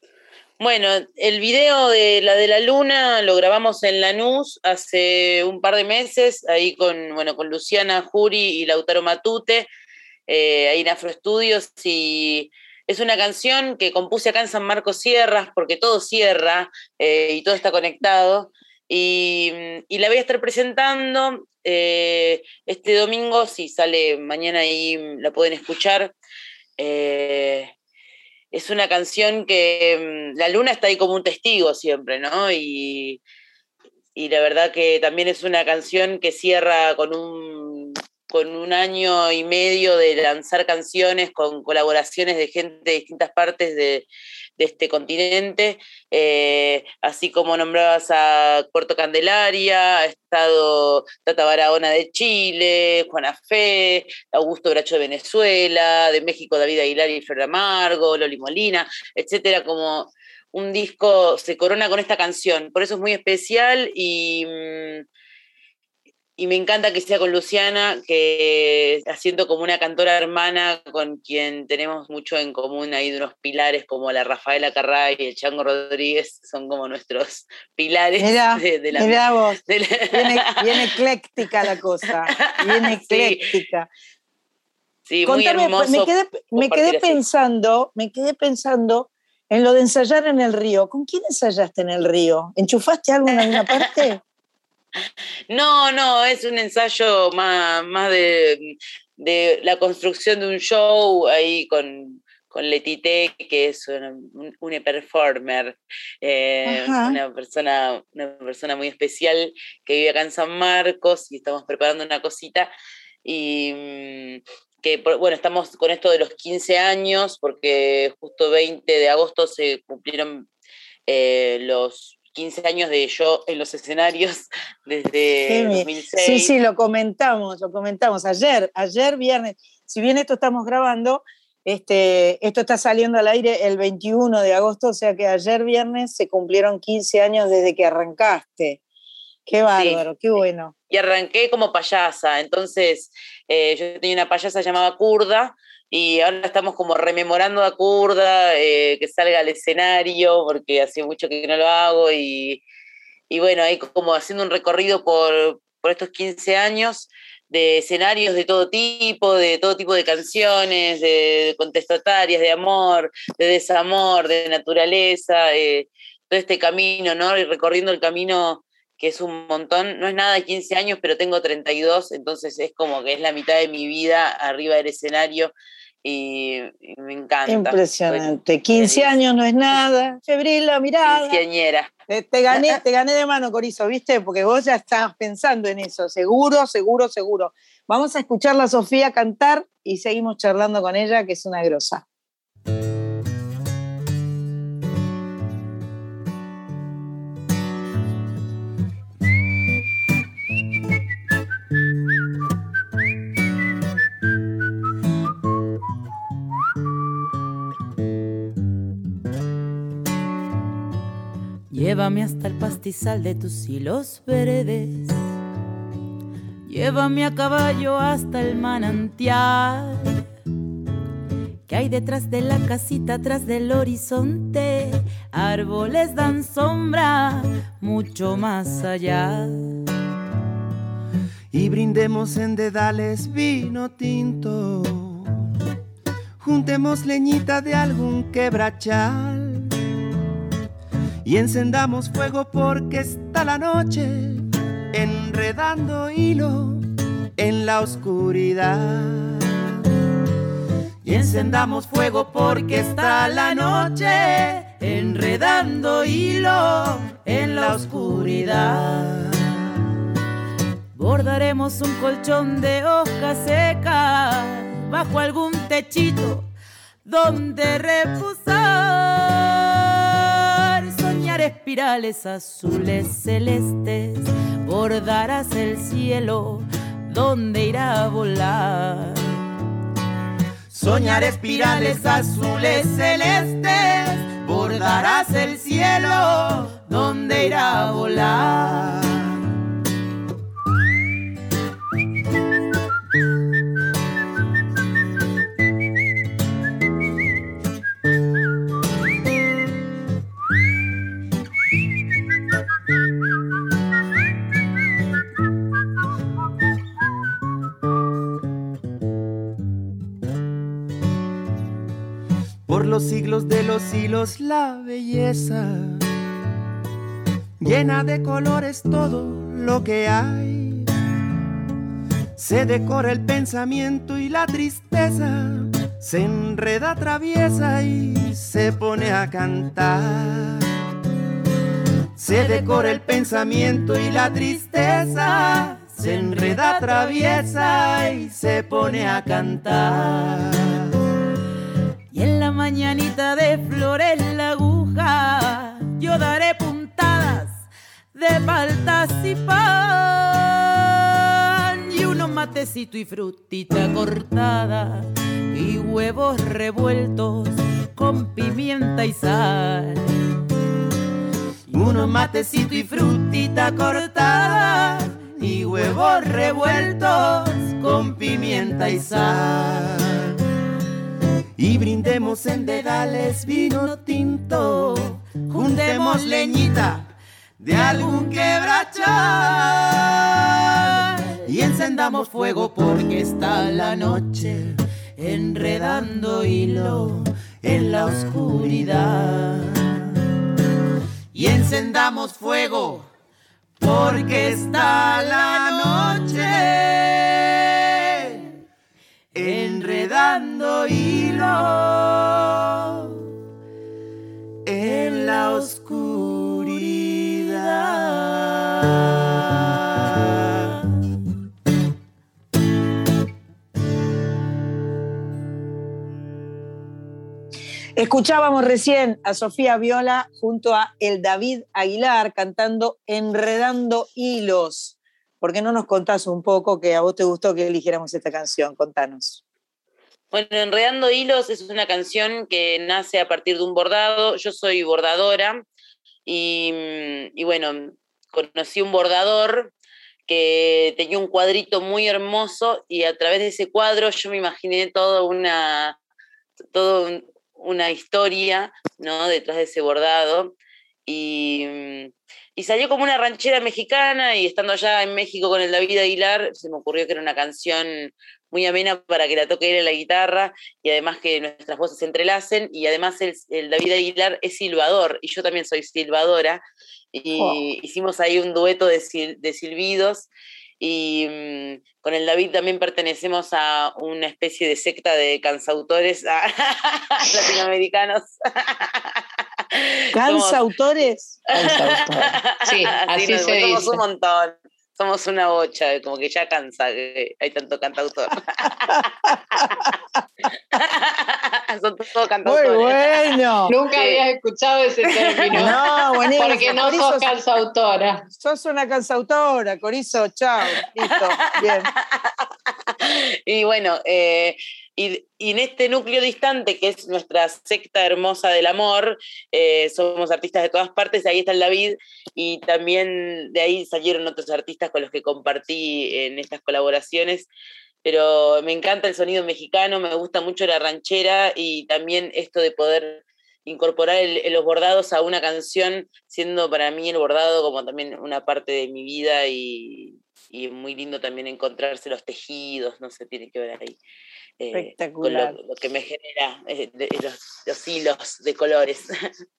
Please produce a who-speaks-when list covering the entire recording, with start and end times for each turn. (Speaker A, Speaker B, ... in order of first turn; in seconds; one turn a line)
Speaker A: 0.6-9.7
Speaker A: 10.3-26.1
Speaker A: 26.8-27.7
Speaker A: 28.5-33.2
Speaker A: 34.1-44.1
Speaker A: 44.6-65.0
Speaker A: 66.4-80.9
Speaker B: 78.2-79.6
Speaker B: 80.1-83.9
Speaker A: 82.3-83.4
Speaker A: 85.1-87.2
Speaker B: 85.2-94.2
Speaker A: 93.5-93.8
Speaker A: 95.5-112.7
Speaker B: 106.7-107.2
Speaker A: 113.2-120.5
Speaker A: 121.1-126.5
Speaker B: 125.5-138.8
Speaker B: 139.5-140.7
Speaker A: 139.8-140.0
Speaker A: 140.9-152.6
Speaker A: 153.3-175.5
Speaker A: 176.0-179.1
Speaker B: 177.5-181.4
Speaker A: 181.1-181.9
Speaker B: 182.1-192.0
Speaker A: 182.5-182.8
Speaker C: 211.7-215.2
Speaker C: 216.7-220.2
Speaker C: 221.7-229.6
Speaker D: 231.5-235.4
Speaker D: 236.4-239.7
Speaker D: 241.2-246.8
Speaker D: 247.4-249.7
Speaker D: 251.0-259.4
Speaker C: 252.4-253.8
Speaker C: 254.8-255.4
Speaker C: 257.2-259.1
Speaker C: 260.9-266.5
Speaker C: 267.1-279.3
Speaker D: 280.7-289.4
Speaker D: 312.7-316.1
Speaker D: 317.6-320.9
Speaker D: 322.4-330.7
Speaker D: 332.2-340.9
Speaker C: 332.4-333.1
Speaker C: 336.1-337.4
Speaker C: 342.1-360.1
Speaker D: 361.7-370.3
Speaker C: 362.1-362.7
Speaker C: 363.5-364.9
Speaker C: 366.2-366.8
Speaker D: 371.6-380.8
Speaker C: 375.5-376.7
Speaker D: 381.5-384.8
Speaker C: 385.2-387.2
Speaker D: 385.3-386.2
Speaker D: 387.6-389.8
Speaker C: 388.2-389.1
Speaker D: 391.3-393.1
Speaker D: 393.8-397.6
Speaker D: 399.4-403.1
Speaker D: 404.6-408.6
Speaker B: 418.0-429.4
Speaker A: 430.3-435.6
Speaker A: 436.3-439.7
Speaker A: 440.3-446.0
Speaker A: 446.7-450.5
Speaker A: 451.1-466.6
Speaker A: 467.1-470.3
Speaker A: 470.8-479.0
Speaker A: 479.7-480.6
Speaker B: 480.1-482.2
Speaker E: 481.6-482.1
Speaker A: 481.6-489.9
Speaker E: 482.6-484.0
Speaker A: 490.7-493.3
Speaker B: 492.5-493.7
Speaker E: 493.7-498.2
Speaker A: 493.9-494.2
Speaker A: 495.1-495.7
Speaker B: 495.6-497.3
Speaker B: 498.4-501.9
Speaker A: 501.0-502.2
Speaker A: 503.0-517.5
Speaker A: 518.0-534.0
Speaker A: 534.6-539.1
Speaker B: 534.7-535.5